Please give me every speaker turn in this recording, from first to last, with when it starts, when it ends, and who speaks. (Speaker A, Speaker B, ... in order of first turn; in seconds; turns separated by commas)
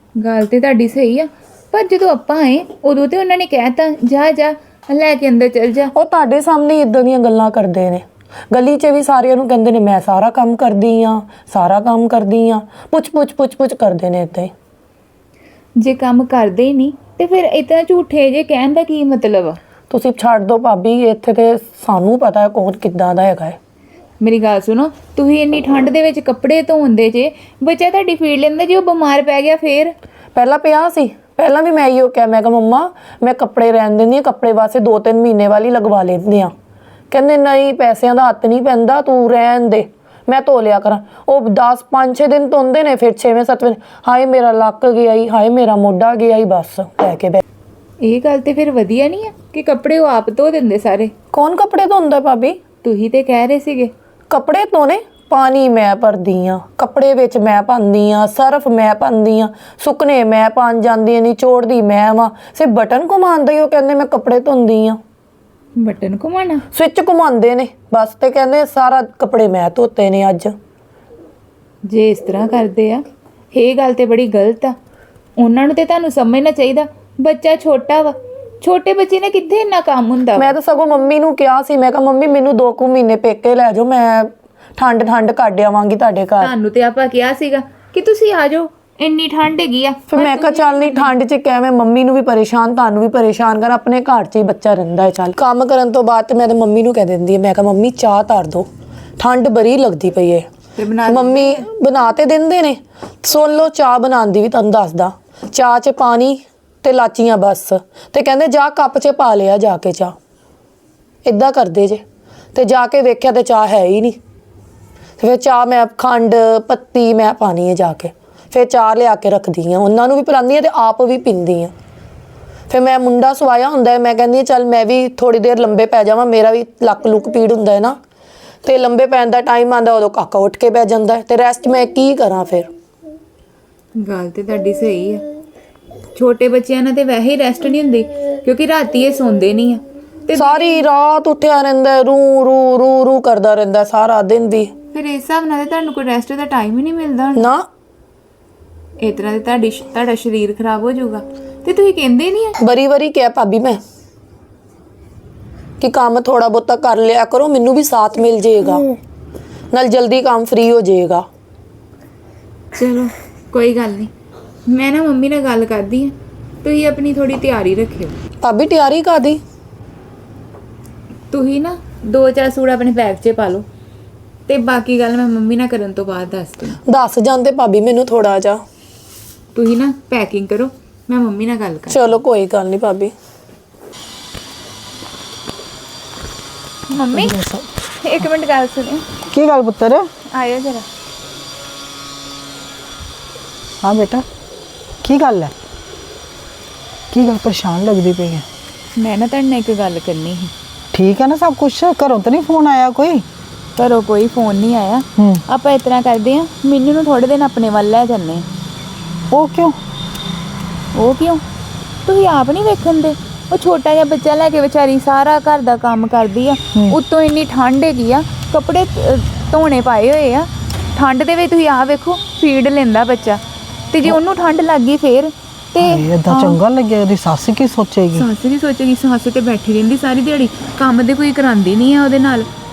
Speaker A: 0.2-5.9, Speaker B: 6.0-14.5, Speaker A: 15.8-19.6, Speaker B: 19.9-23.6, Speaker A: 24.2-29.9, Speaker B: 30.4-36.5, Speaker B: 37.1-47.4, Speaker A: 48.0-51.1, Speaker B: 51.3-52.6, Speaker A: 52.8-53.9, Speaker B: 54.3-65.0, Speaker A: 65.8-66.6, Speaker B: 66.7-70.5, Speaker A: 71.9-74.8, Speaker A: 75.4-80.5, Speaker B: 80.4-86.5, Speaker A: 86.4-91.1, Speaker B: 90.1-98.7, Speaker B: 99.2-100.5, Speaker A: 100.8-101.6, Speaker B: 101.0-110.2, Speaker B: 111.2-112.0, Speaker B: 112.5-114.2, Speaker B: 115.2-121.7, Speaker B: 122.7-128.0, Speaker B: 128.6-132.7, Speaker A: 134.0-135.2, Speaker A: 136.2-140.8, Speaker B: 140.3-144.7, Speaker A: 144.9-147.5, Speaker B: 147.3-147.7, Speaker A: 149.0-152.6, Speaker B: 152.6-153.8, Speaker B: 155.8-158.9, Speaker B: 159.7-161.3, Speaker A: 162.8-164.1, Speaker A: 164.7-168.1, Speaker B: 168.4-169.4, Speaker A: 171.3-173.7, Speaker A: 174.5-176.8, Speaker B: 176.9-178.6, Speaker A: 179.6-182.2, Speaker B: 181.9-183.1, Speaker A: 186.9-187.4, Speaker C: 187.4-187.7, Speaker A: 188.0-189.0, Speaker C: 189.3-190.1, Speaker A: 190.3-190.9, Speaker C: 193.8-194.2, Speaker C: 195.0-195.5, Speaker C: 197.1-198.4, Speaker A: 199.0-200.5, Speaker C: 200.9-203.2, Speaker A: 203.8-208.5, Speaker C: 209.3-209.8, Speaker A: 210.9-211.4, Speaker A: 212.1-223.4, Speaker A: 223.9-226.6, Speaker C: 225.9-228.2, Speaker A: 228.1-232.5